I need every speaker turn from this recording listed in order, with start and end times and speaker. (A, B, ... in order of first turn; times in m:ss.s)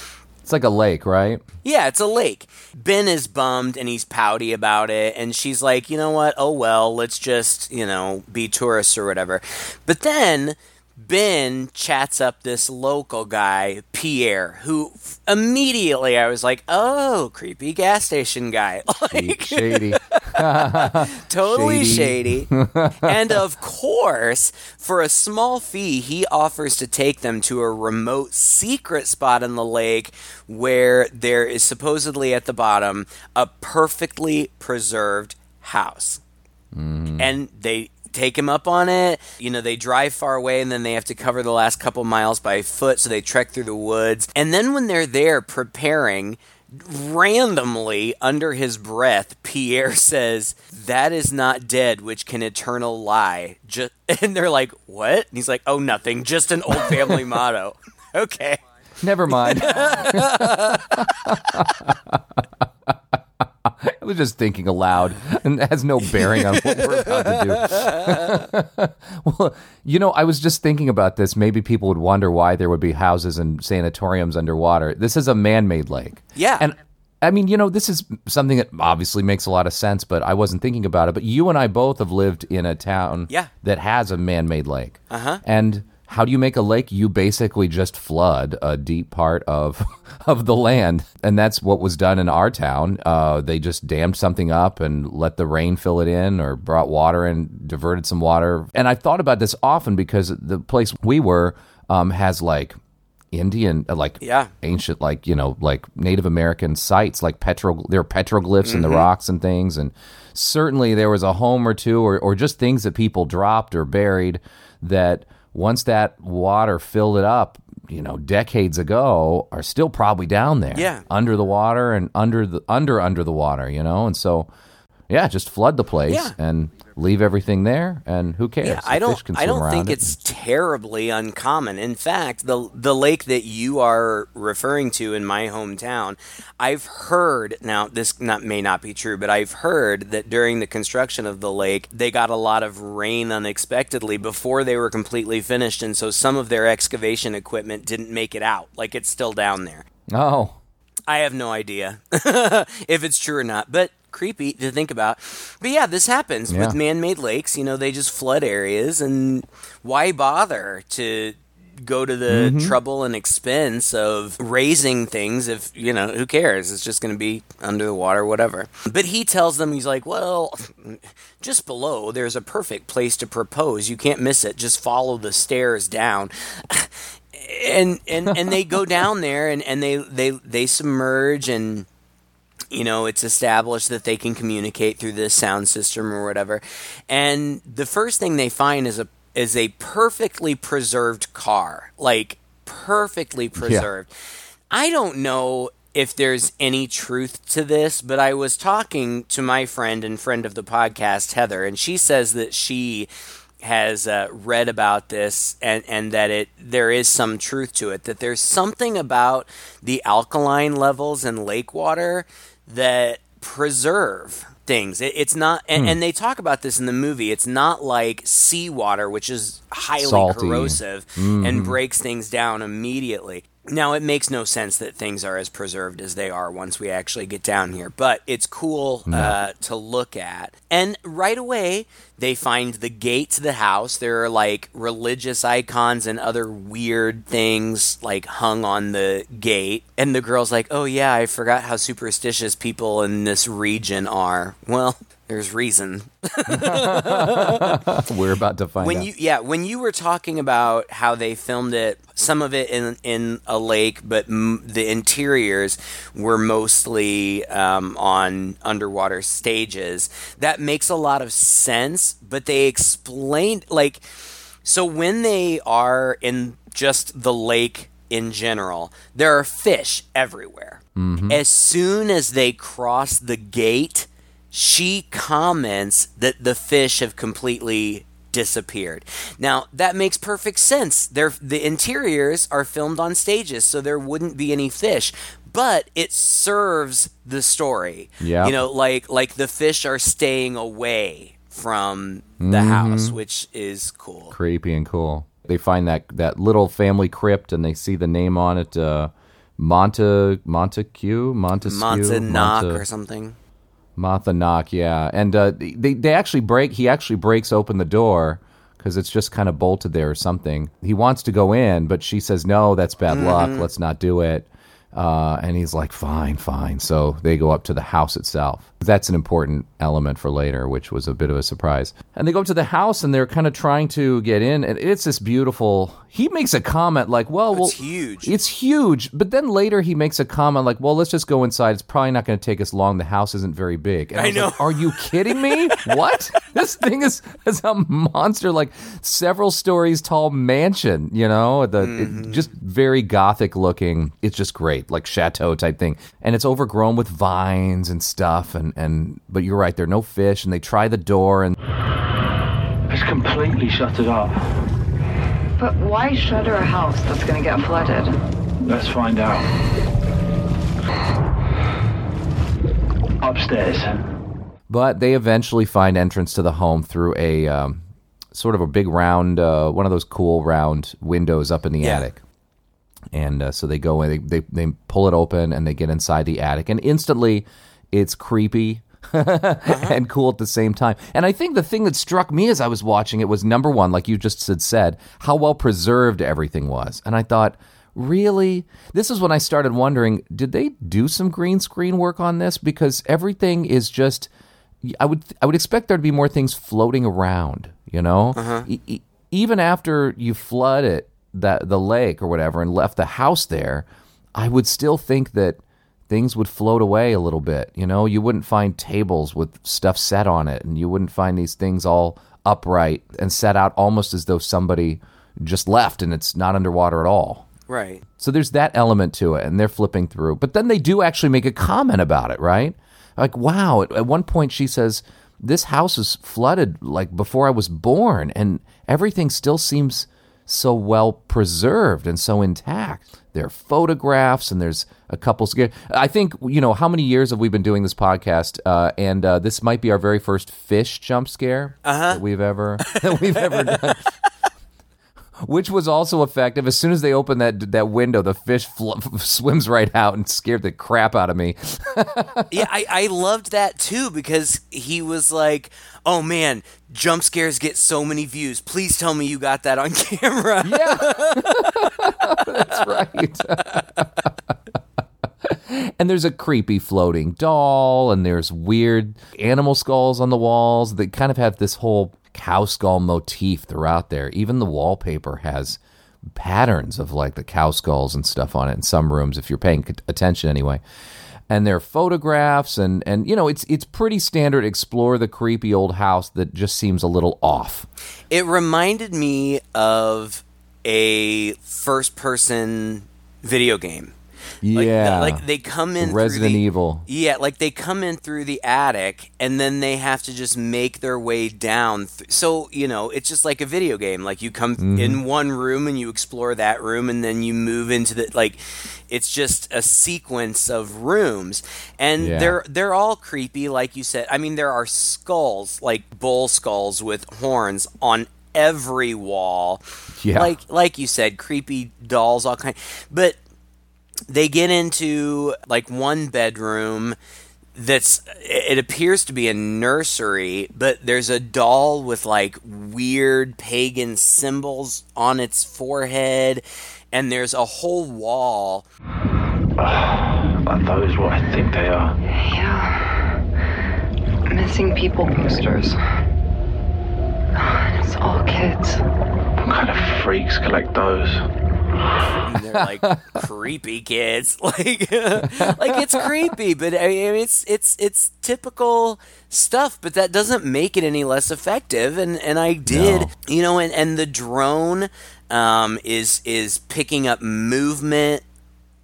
0:00.5-0:01.4 A
0:01.6-0:36.2 B
0:19.1-0:23.4 A
0:36.7-0:37.3 A
0:37.2-0:58.6 B
0:56.8-0:57.1 A
0:59.0-1:42.8 A
0:59.3-1:01.7 B
1:06.3-1:08.3 B
1:16.4-1:16.6 B
1:25.1-1:25.4 B
1:43.3-2:04.5 A
1:44.2-1:44.5 B
1:48.6-1:49.1 B
2:00.7-2:01.0 B
2:05.1-2:10.2 A
2:06.1-2:06.3 B
2:08.6-2:29.8 B
2:30.1-2:30.6 A
2:31.1-3:01.9 B
2:36.5-2:36.8 A
2:42.3-2:42.8 A
2:58.3-2:59.0 A
3:02.7-3:14.1 B
3:13.6-3:13.9 A
3:14.7-3:23.1 B
3:23.6-4:07.8 B
3:40.0-3:41.8 A
3:49.1-3:49.4 A
4:06.5-4:09.1 A
4:08.8-4:54.4 B
4:31.0-4:31.4 A
4:48.2-4:48.6 A
4:52.4-4:53.2 A
4:54.3-5:02.8 A
5:01.6-5:03.4 B
5:04.0-5:51.6 A
5:13.1-5:13.7 B
5:27.5-5:28.3 B
5:34.2-5:35.9 B
5:41.8-5:42.5 B
5:52.9-5:54.5 C
5:55.6-5:58.1 D
5:58.6-5:59.5 C
6:03.2-6:03.9 C
6:04.7-6:12.2 A
6:13.1-6:34.3 A
6:19.7-6:20.0 B
6:34.8-6:57.5 A
6:38.4-6:38.7 B
6:57.7-6:58.0 B
6:58.2-7:24.1 A
7:21.8-7:22.2 B
7:22.9-7:24.0 B
7:25.4-7:32.5 A
7:32.5-7:43.0 B
7:40.6-7:44.3 A
7:45.4-8:00.8 A
8:01.5-8:07.9 A
8:08.3-8:14.1 B
8:14.6-8:15.4 A
8:14.7-8:39.8 B
8:16.0-8:17.0 A
8:24.8-8:25.2 A
8:32.2-8:32.6 A
8:40.2-8:40.6 A
8:40.3-8:43.4 B
8:44.3-8:47.2 B
8:47.8-8:58.9 B
8:59.8-9:02.2 C
9:02.3-9:03.3 D
9:04.5-9:06.0 D
9:07.6-9:09.0 D
9:09.6-9:11.5 C
9:12.4-9:28.4 B
9:12.7-9:13.4 A
9:15.4-9:16.3 A
9:22.9-9:23.3 A